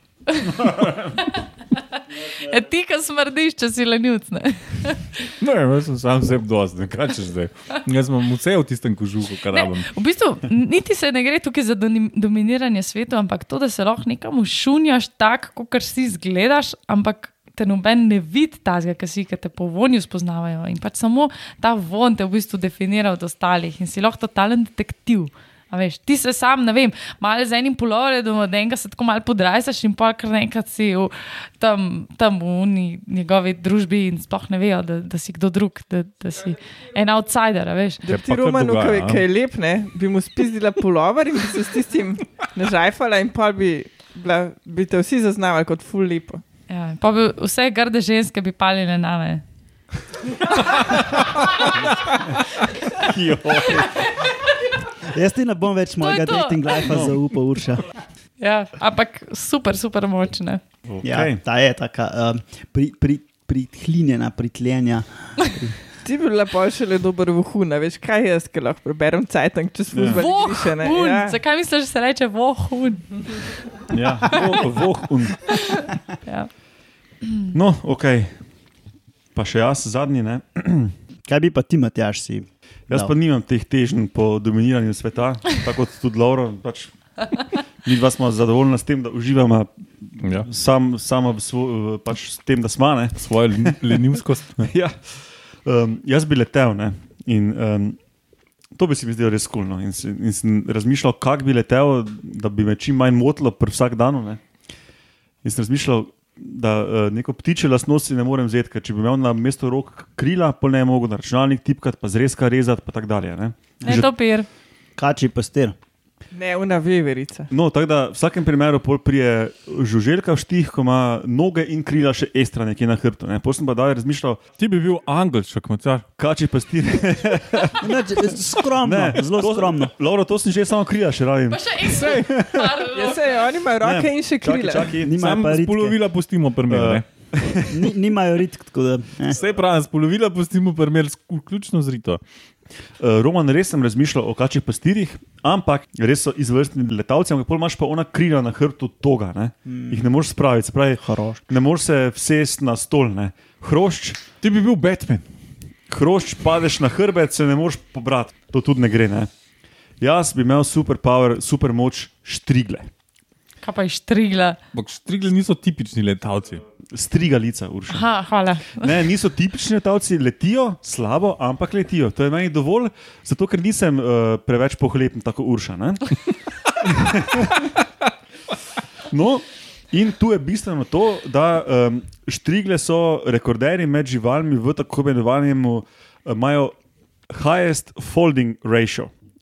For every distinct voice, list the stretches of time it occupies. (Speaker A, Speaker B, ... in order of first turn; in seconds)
Speaker A: 0.3-5.2, 9.5-38.0, 46.7-49.4, 56.0-56.8, 58.4-60.6, 70.1-73.6, 75.4-76.5, 77.2-77.5, 113.8-114.5, 131.5-133.4, 163.6-164.6, 167.9-168.9
Speaker B: 5.4-10.0, 38.1-39.2, 90.2-90.5, 93.2-94.7, 124.6-126.1, 135.2-137.1, 139.3-142.2, 154.4-155.3, 164.7-166.6
Speaker C: 38.0-46.4, 66.0-71.4, 116.3-117.5, 132.9-134.9
Speaker D: 53.0-54.1, 60.9-61.4, 69.9-70.2, 73.9-75.6, 77.5-78.4, 79.3-81.0, 82.9-93.8, 94.6-98.0, 98.8-104.4, 105.4-114.1, 117.5-124.4, 126.2-128.1, 128.8-132.8, 133.8-135.1, 136.7-137.9, 143.0-154.2, 155.9-159.3, 160.0-162.9, 166.9-168.1, 168.7-176.2, 176.8-177.8, 179.1-186.7, 187.3-189.1
Speaker E: 55.0-57.9, 61.0-65.8, 81.3-83.1, 115.0-115.8, 127.8-129.9, 135.0-136.0, 137.7-139.4, 149.7-150.1, 151.0-151.4